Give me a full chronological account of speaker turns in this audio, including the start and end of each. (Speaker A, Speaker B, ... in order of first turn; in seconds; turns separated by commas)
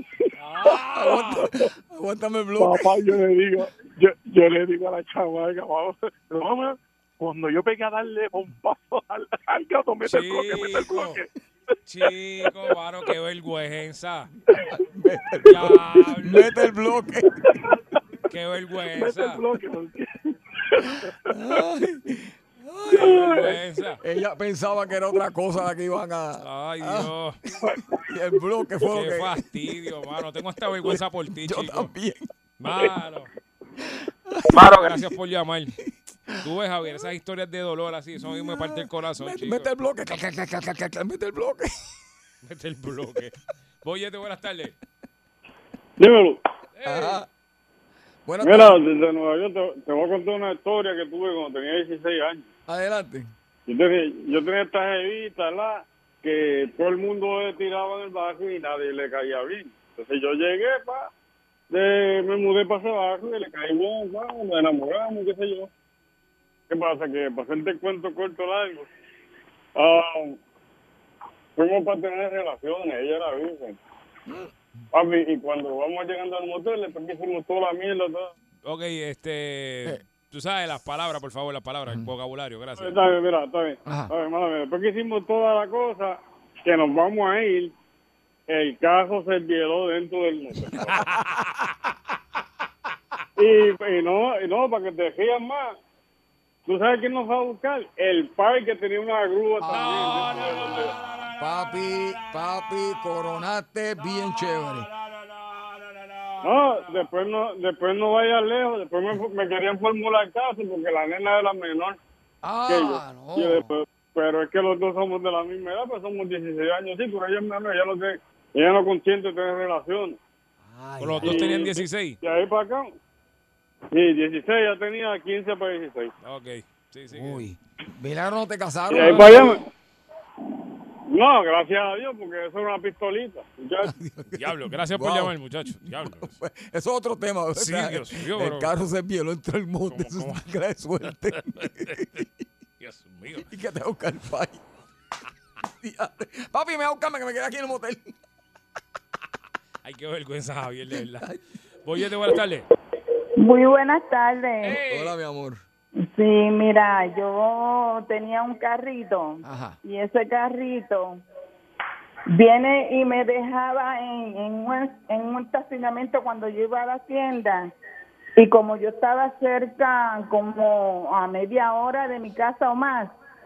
Speaker A: 0.3-1.5, Speaker B: 0.6-2.9, Speaker C: 2.6-11.3, Speaker A: 10.0-11.2, Speaker A: 11.8-14.3, Speaker B: 14.7-17.3, Speaker A: 15.4-16.5, Speaker A: 18.3-19.4, Speaker C: 18.9-21.5, Speaker B: 21.3-27.1, Speaker A: 22.9-24.0, Speaker A: 26.4-27.4, Speaker B: 27.7-29.7, Speaker A: 28.8-31.9, Speaker B: 30.8-32.2, Speaker A: 32.6-33.3, Speaker B: 33.8-35.1, Speaker A: 34.5-35.8, Speaker B: 36.3-37.0, Speaker A: 36.4-39.7, Speaker B: 38.2-42.0, Speaker A: 42.4-44.7, Speaker D: 46.0-46.4, Speaker A: 46.8-47.2, Speaker B: 46.8-47.3, Speaker B: 48.2-48.8, Speaker D: 48.4-52.5, Speaker B: 52.7-53.3, Speaker D: 53.7-61.1, Speaker D: 61.7-65.7, Speaker D: 66.7-68.9, Speaker D: 69.7-70.4, Speaker D: 71.5-73.8, Speaker B: 74.3-74.8, Speaker D: 74.9-78.3, Speaker A: 78.7-83.0, Speaker D: 82.8-87.7, Speaker B: 83.8-84.1, Speaker D: 88.5-91.1, Speaker A: 90.8-91.4, Speaker D: 93.4-95.7, Speaker D: 96.7-101.0, Speaker B: 99.6-100.3, Speaker A: 99.7-100.8, Speaker B: 100.9-104.9, Speaker D: 106.4-112.0, Speaker B: 112.4-113.7, Speaker D: 112.7-120.2, Speaker B: 120.7-121.7, Speaker A: 121.0-122.2, Speaker D: 121.2-122.9, Speaker D: 123.9-126.1, Speaker A: 126.2-127.4, Speaker B: 127.1-129.6, Speaker D: 128.9-129.6, Speaker D: 131.1-133.9, Speaker B: 133.8-142.3, Speaker A: 134.3-136.3, Speaker A: 137.5-138.8, Speaker A: 139.9-140.4, Speaker A: 141.1-142.2, Speaker A: 142.8-143.5, Speaker B: 143.5-144.6, Speaker B: 145.6-148.1, Speaker A: 149.8-151.3, Speaker B: 150.9-151.4, Speaker A: 151.8-152.7, Speaker E: 153.4-154.8, Speaker A: 154.6-155.1, Speaker B: 154.8-155.6, Speaker E: 156.0-161.2, Speaker B: 159.4-159.8, Speaker E: 162.3-167.7, Speaker E: 168.4-173.1